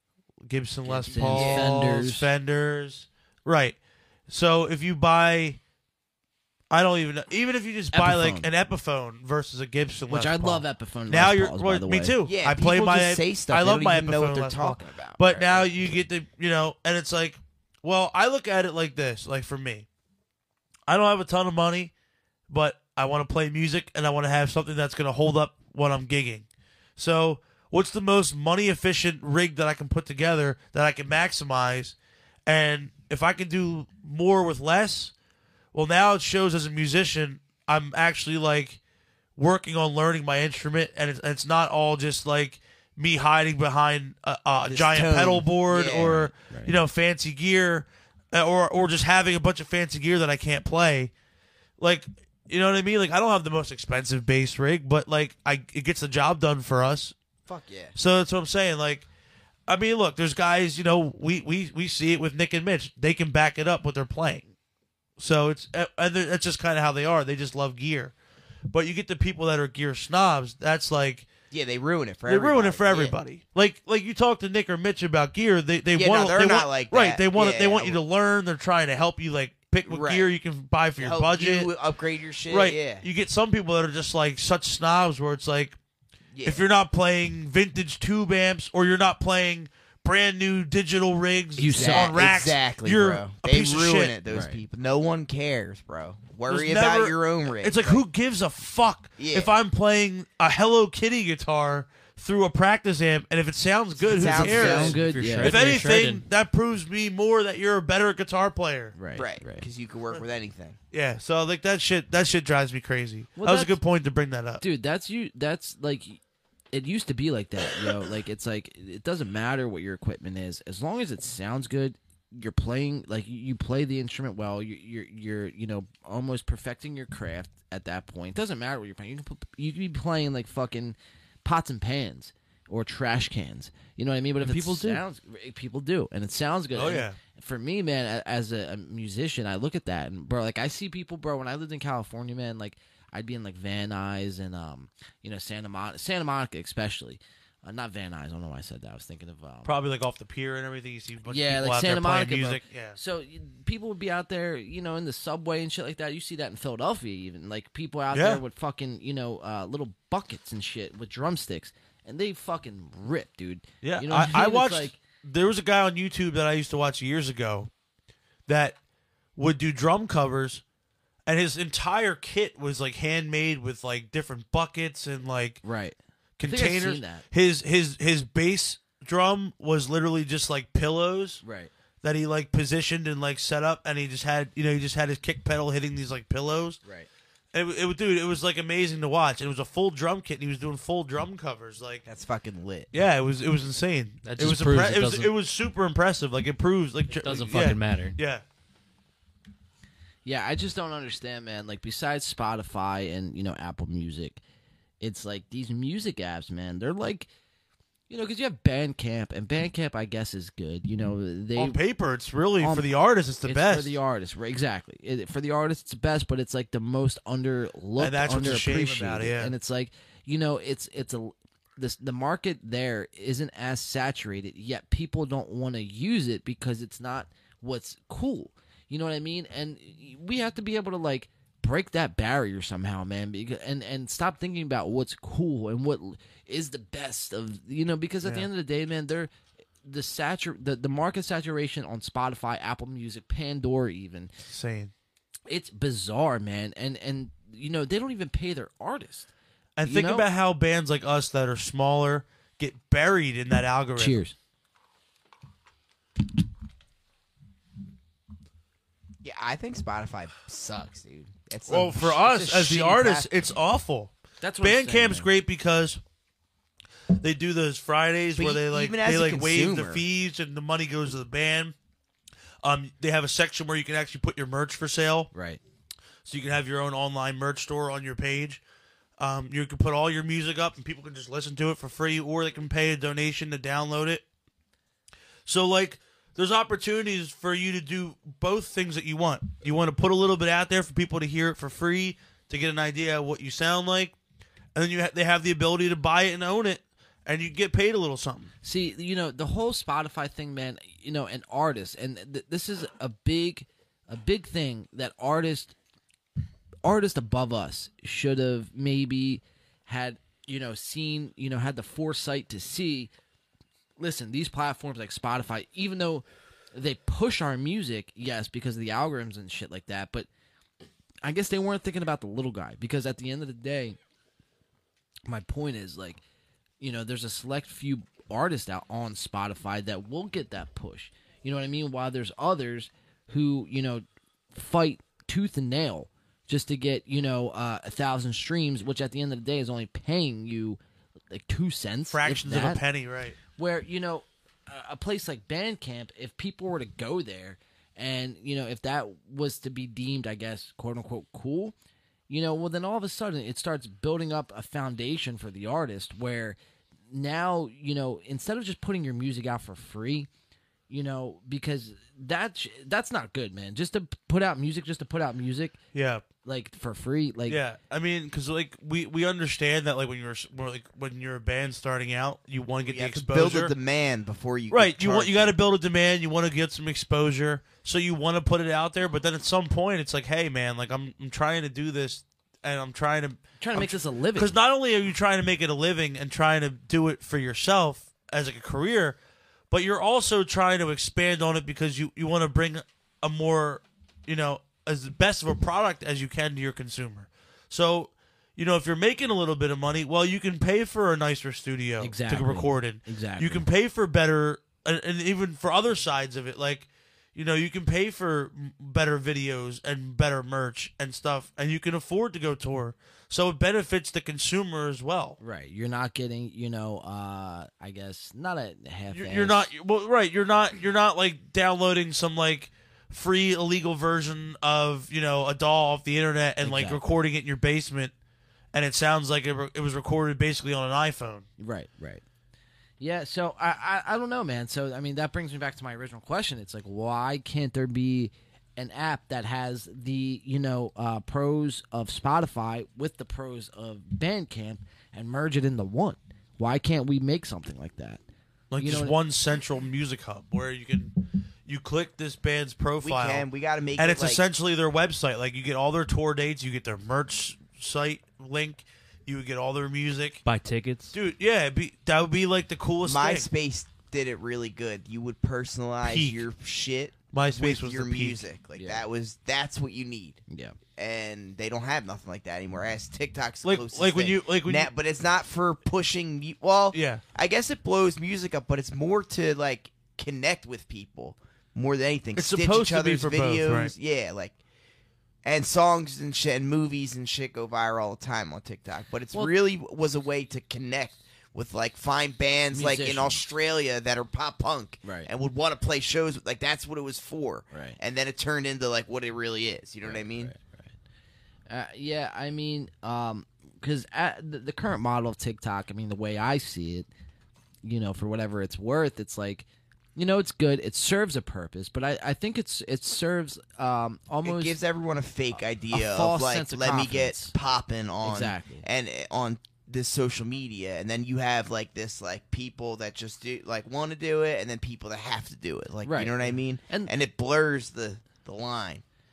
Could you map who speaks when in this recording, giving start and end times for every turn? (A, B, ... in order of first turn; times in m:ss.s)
0:00.5-0:03.8 A
0:00.8-0:02.3 B
0:01.3-0:01.7 C
0:04.3-0:05.6 A
0:06.7-0:19.9 A
0:07.9-0:08.5 B
0:10.1-0:12.2 B
0:12.2-0:15.7 C
0:20.9-0:21.9 A
0:22.5-0:32.0 A
0:32.5-0:35.1 A
0:35.7-0:38.8 A
0:39.4-0:51.1 A
0:44.7-0:46.3 C
0:46.5-0:46.8 B
0:51.8-0:57.2 A
0:57.5-0:58.0 C
0:58.0-0:59.1 A
0:59.7-1:04.4 A
1:05.2-1:08.1 A
1:08.7-1:11.3 A
1:11.5-1:13.2 C
1:12.3-1:21.7 A
1:15.9-1:18.0 C
1:19.8-1:20.3 C
1:21.0-1:23.0 C
1:22.5-1:25.8 A
1:26.3-1:26.7 C
1:26.4-1:34.1 A
1:31.6-1:32.2 B
1:31.7-1:38.0 C
1:34.3-1:34.6 B
1:36.5-1:48.9 A
1:39.2-1:39.5 C
1:44.0-1:45.0 C
1:44.1-1:45.8 B
1:44.7-1:46.2 D
1:49.0-1:49.6 B
1:49.2-1:50.8 C
1:50.9-1:54.6 A
1:53.4-1:53.8 B
1:54.6-1:56.2 B
1:56.7-2:29.8 B
2:14.4-2:15.0 D
2:16.7-2:17.2 A
2:29.7-2:33.0 A
2:31.2-2:45.0 B
2:38.1-2:38.4 A
2:43.8-2:47.7 A
2:48.5-2:48.8 A
2:49.4-2:50.6 A
2:51.3-2:55.6 A
2:55.6-2:57.2 B
2:56.4-3:01.4 A
3:01.4-3:01.7 B
3:02.0-3:06.8 A
3:07.5-3:12.0 A
3:12.1-3:12.9 C
3:12.9-3:18.4 A
3:14.2-3:15.3 D
3:17.1-3:18.2 D
3:20.2-3:24.4 B
3:25.0-3:27.3 B
3:28.1-3:31.8 B
3:31.6-3:34.0 A
3:32.6-3:32.9 B
3:33.4-3:59.3 B
3:38.0-3:39.5 A
3:59.8-4:04.3 B
4:04.5-4:04.9 A
4:05.5-4:09.3 B
4:09.8-4:14.2 A
4:09.8-4:10.3 B
4:14.0-4:14.4 B
4:19.2-4:22.9 C
4:21.7-4:26.0 A
4:22.3-4:23.2 B
4:24.4-4:25.3 B
4:27.2-4:31.7 A
4:28.4-4:30.0 C
4:32.6-4:35.3 A
4:35.3-4:35.6 B
4:36.3-4:38.6 A
4:39.2-4:44.2 A
4:45.5-4:54.2 A
4:54.8-4:58.5 A
4:58.6-5:05.8 B
5:06.8-5:13.1 B
5:14.0-5:20.3 B
5:21.2-5:24.0 B
5:25.3-5:26.2 B
5:26.8-5:40.8 B
5:41.3-5:42.8 B
5:42.1-5:43.4 A
5:43.6-5:51.8 B
5:52.3-5:56.6 B
5:57.1-6:00.3 B
6:00.9-6:05.8 B
6:05.9-6:06.2 A
6:06.4-6:07.6 B
6:07.5-6:13.7 A
6:12.8-6:15.5 C
6:14.7-6:29.2 A
6:23.6-6:24.5 B
6:29.7-6:55.4 A
6:42.0-6:43.7 B
6:55.4-6:59.7 B
6:59.1-7:08.1 A
7:06.6-7:07.0 B
7:08.7-7:11.4 A
7:11.6-7:12.2 B
7:13.0-7:28.2 B
7:28.7-7:31.1 A
7:28.8-7:29.2 B
7:31.7-7:33.5 A
7:33.0-7:34.4 C
7:34.0-7:40.4 A
7:40.5-7:41.2 D
7:41.1-7:43.5 A
7:43.0-7:50.4 C
7:46.0-7:46.4 A
7:47.3-7:48.4 A
7:48.8-7:49.0 B
7:50.5-7:50.8 B
7:51.0-8:04.6 C
7:53.6-7:54.9 A
7:56.9-7:57.2 A
8:02.4-8:03.9 A
8:05.4-8:20.5 C
8:12.7-8:13.4 B
8:15.0-8:15.3 B
8:17.7-8:18.0 B
8:20.0-8:20.9 B
8:21.7-8:27.1 B
8:27.8-8:34.8 B
8:34.4-8:49.0 C
8:35.9-8:37.5 B
8:38.2-8:38.8 B
8:46.0-8:47.1 B